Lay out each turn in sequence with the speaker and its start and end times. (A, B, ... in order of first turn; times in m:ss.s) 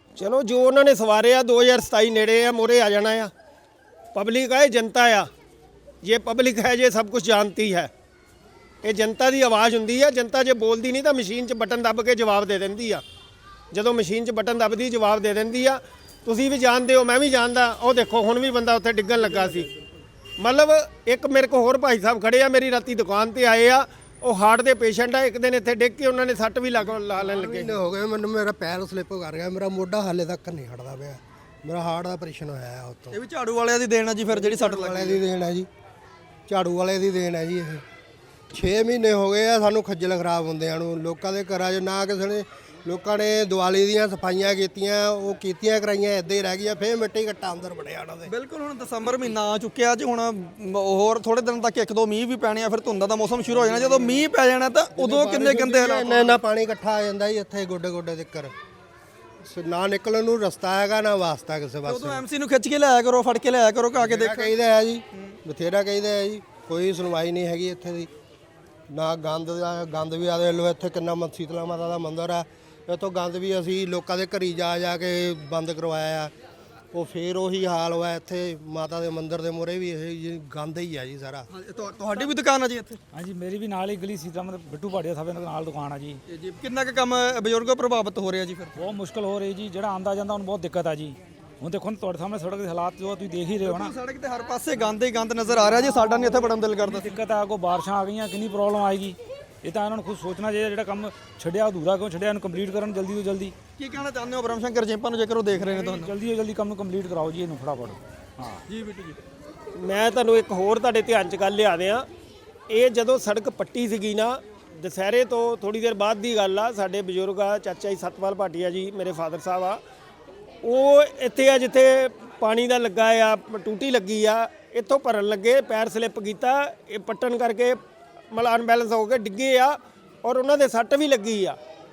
0:00.2-0:03.3 A
0:04.1-0:05.3 A
0:06.0-0:07.9 A
0:08.8-0:13.0 A
0:13.7-0:19.7 A
0:20.4-0:27.8 A
0:27.2-0:33.2 B
0:33.1-0:35.2 C
0:34.3-0:35.7 B
0:36.5-0:37.8 B
0:38.5-0:48.3 B
0:48.3-0:56.4 C
0:53.9-0:54.2 B
0:55.0-0:58.5 B
0:59.4-1:02.2 B
1:01.9-1:04.5 C
1:04.0-1:08.1 B
1:05.1-1:05.4 C
1:08.9-1:16.3 B
1:16.9-1:21.5 B
1:21.5-1:23.0 C
1:23.1-1:26.2 D
1:26.3-1:28.8 C
1:28.8-1:33.9 D
1:33.6-1:37.1 C
1:36.8-1:43.6 D
1:43.8-1:46.1 C
1:45.6-1:48.6 D
1:48.7-1:49.2 C
1:49.8-1:52.1 A
1:52.7-1:59.8 A
2:00.6-2:07.8 A
2:08.3-2:11.6 A